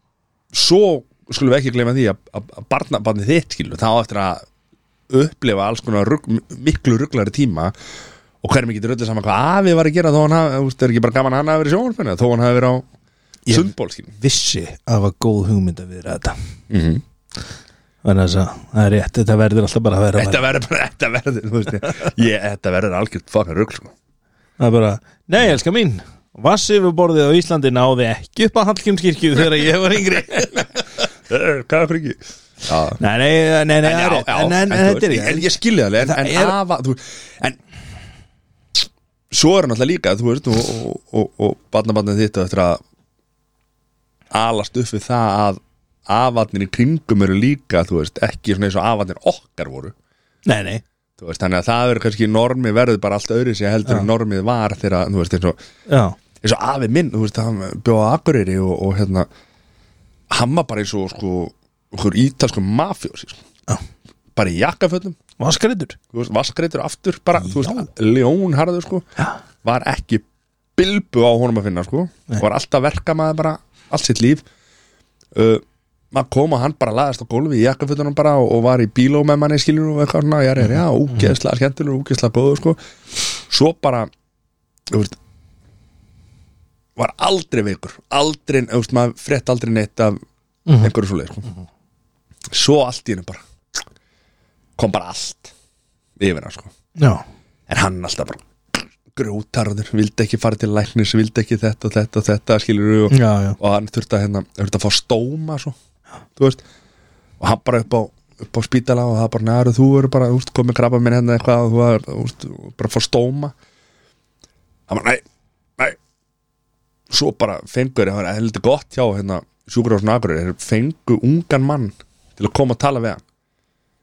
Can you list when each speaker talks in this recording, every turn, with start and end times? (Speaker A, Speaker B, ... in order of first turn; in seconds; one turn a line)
Speaker A: 0.5-4.4
Speaker A: 5.1-7.7
Speaker A: 8.4-12.8
Speaker B: 13.4-16.4
Speaker A: 13.5-14.1
Speaker A: 16.7-17.0
Speaker B: 18.0-20.4
Speaker A: 20.1-23.9
Speaker B: 24.6-30.7
Speaker A: 31.3-33.0
Speaker B: 33.0-36.5
Speaker A: 33.8-37.6
Speaker A: 39.3-42.8
Speaker A: 44.3-49.9
Speaker B: 50.5-50.8
Speaker A: 51.2-55.6
Speaker B: 55.9-56.2
Speaker A: 56.4-59.3
Speaker A: 60.3-63.4
Speaker A: 64.3-65.2
Speaker B: 65.4-66.0
Speaker A: 66.1-69.0
Speaker B: 67.4-67.9
Speaker A: 69.6-70.2
Speaker A: 70.8-74.4
Speaker A: 75.3-82.8
Speaker B: 80.6-81.3
Speaker A: 83.5-84.1
Speaker A: 84.9-85.2
Speaker A: 87.0-90.2
Speaker B: 90.7-90.9
Speaker A: 90.8-91.5
Speaker A: 92.5-93.4
Speaker A: 94.8-95.5
Speaker A: 96.2-96.7
Speaker B: 97.0-97.2
Speaker A: 97.7-105.8
Speaker B: 103.1-103.6
Speaker A: 106.4-106.6
Speaker A: 107.4-113.5
Speaker A: 114.9-115.2
Speaker A: 117.1-123.2